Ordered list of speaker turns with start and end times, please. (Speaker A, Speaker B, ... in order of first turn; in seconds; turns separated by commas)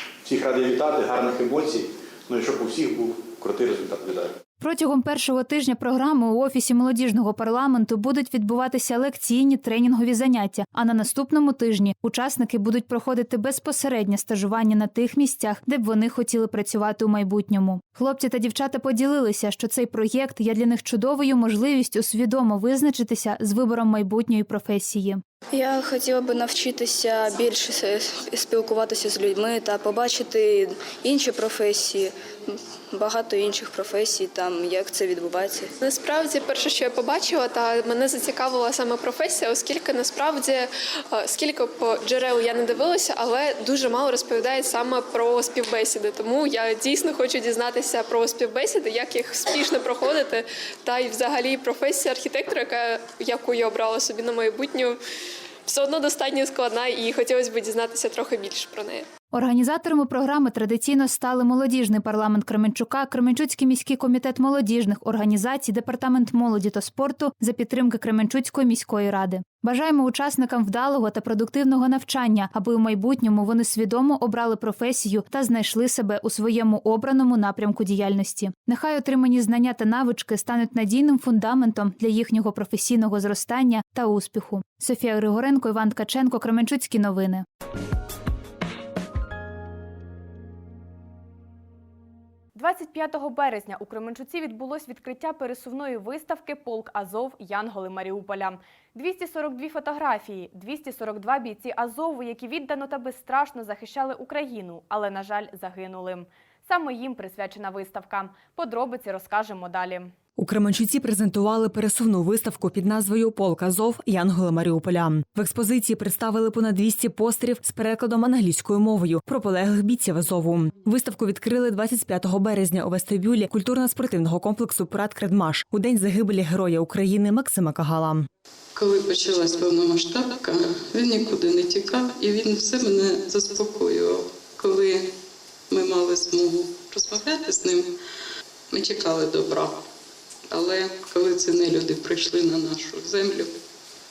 Speaker A: 0.2-4.3, Speaker B: 4.6-25.2, Speaker C: 25.5-35.7, Speaker D: 35.8-55.0, Speaker D: 55.7-59.0, Speaker B: 59.3-87.4, Speaker E: 92.5-110.1, Speaker F: 110.4-128.3, Speaker G: 128.7-135.1, Speaker G: 135.7-138.0, Speaker G: 138.7-139.8, Speaker G: 140.5-143.6